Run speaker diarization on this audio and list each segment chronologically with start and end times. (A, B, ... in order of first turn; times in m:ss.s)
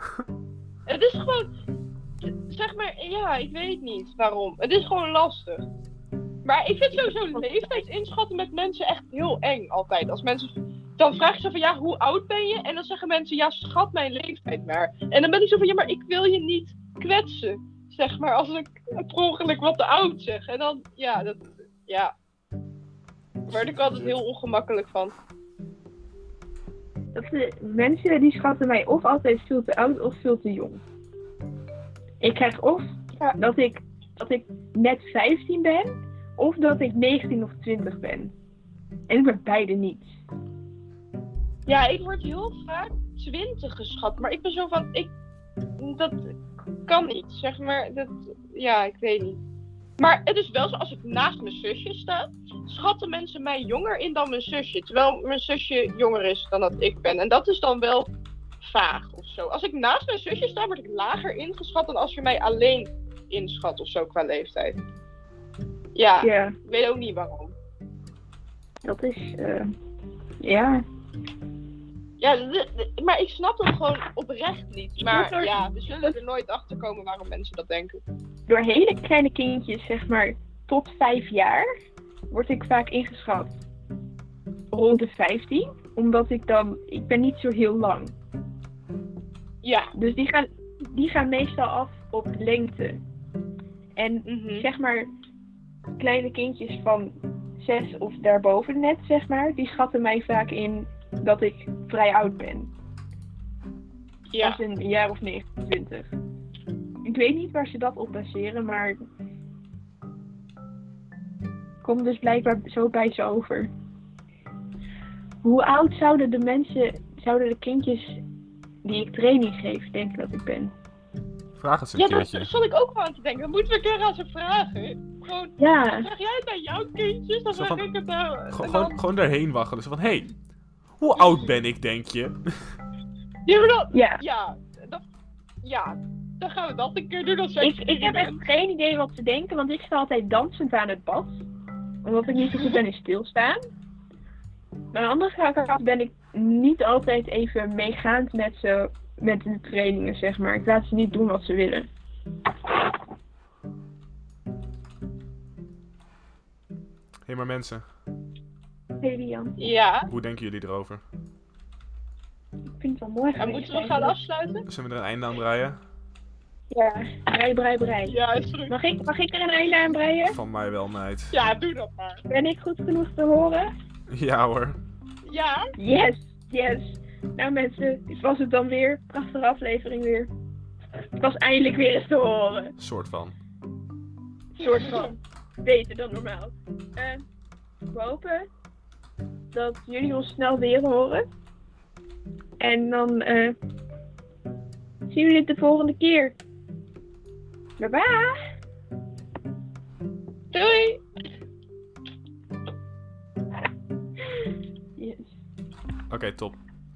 0:00.9-0:01.5 A
0:02.3-0:05.6 A
0:06.4-0:22.1 A
0:23.5-0:24.2 B
0:23.5-0:25.2 A
0:27.1-0:30.8 C
0:32.2-0:38.3 C
0:39.1-0:40.1 C
0:41.7-0:45.1 A
0:45.8-0:46.4 A
0:46.9-0:49.4 A
0:50.0-0:58.1 A
0:58.6-1:04.8 A
1:06.0-1:07.6 A
1:06.2-1:06.5 C
1:08.8-1:09.7 C
1:10.4-1:10.8 C
1:12.2-1:18.0 A
1:15.0-1:16.2 C
1:18.5-1:21.6 C
1:22.3-1:23.6 C
1:24.7-1:28.1 C
1:29.6-1:29.9 A
1:30.0-1:33.0 C
1:34.0-1:35.1 C
1:34.3-1:34.7 A
1:36.0-1:42.7 C
1:44.3-1:44.6 A
1:44.4-1:46.1 C
1:47.0-1:49.0 C
1:51.8-1:53.7 C
1:55.4-1:58.2 C
1:58.8-2:00.7 C
2:01.6-2:02.5 B
2:02.0-2:09.0 A
2:05.6-2:06.1 C
2:07.5-2:07.9 B
2:08.5-2:10.4 B
2:11.0-2:12.4 B
2:11.2-2:11.5 A
2:13.5-2:15.0 A
2:13.9-2:14.2 C
2:15.6-2:18.4 A
2:17.6-2:21.4 C
2:22.0-2:23.6 C
2:24.9-2:31.9 C
2:37.3-2:37.8 B
2:39.0-2:39.7 C
2:39.6-2:40.1 A
2:40.1-2:41.0 B
2:42.8-2:44.2 C
2:43.4-2:44.6 A
2:44.7-2:45.8 B
2:46.7-2:48.2 C
2:48.0-2:48.7 A
2:48.7-2:50.4 C
2:50.2-2:51.3 B
2:51.3-2:52.2 A
2:52.3-2:53.7 C
2:54.1-2:54.8 B
2:55.2-2:55.6 A
2:55.8-3:00.3 C
3:01.2-3:02.7 C
3:02.8-3:03.4 B
3:04.6-3:07.2 C
3:07.9-3:08.5 C
3:09.5-3:11.3 C
3:12.6-3:13.6 C
3:15.1-3:16.4 C
3:17.8-3:18.4 C
3:20.5-3:21.0 A
3:25.0-3:25.3 C
3:26.1-3:26.6 B